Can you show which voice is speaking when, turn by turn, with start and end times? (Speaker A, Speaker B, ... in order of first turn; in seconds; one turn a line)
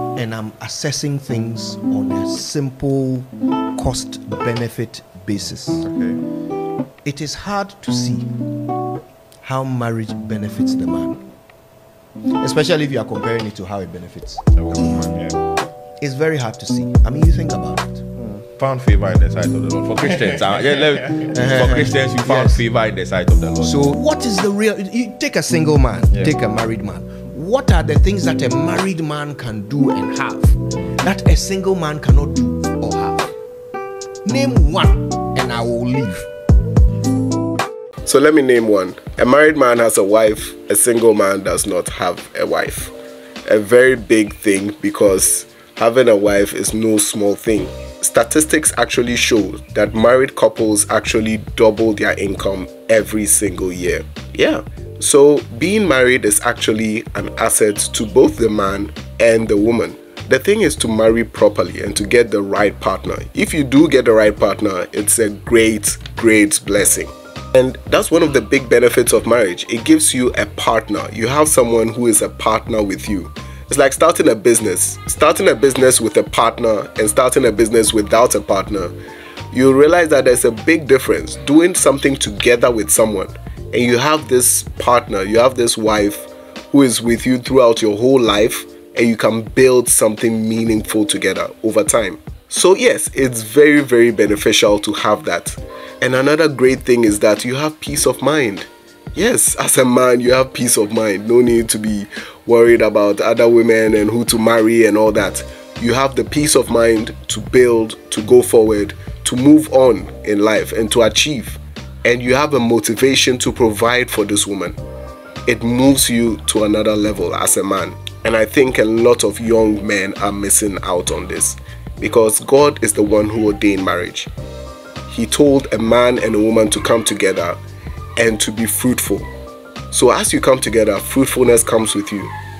Speaker A: 0.1-5.8
Speaker B: 5.8-6.2
Speaker A: 7.0-8.4
Speaker A: 9.4-11.2
Speaker A: 12.4-15.0
Speaker B: 14.6-15.4
Speaker A: 16.0-18.1
Speaker B: 18.2-23.9
Speaker A: 21.2-22.6
Speaker A: 23.6-33.3
Speaker A: 34.2-36.3
Speaker C: 38.0-42.9
Speaker C: 43.5-78.9
Speaker C: 79.5-114.8
Speaker C: 115.5-124.3
Speaker C: 125.1-127.6
Speaker C: 128.2-129.3
Speaker C: 129.9-132.3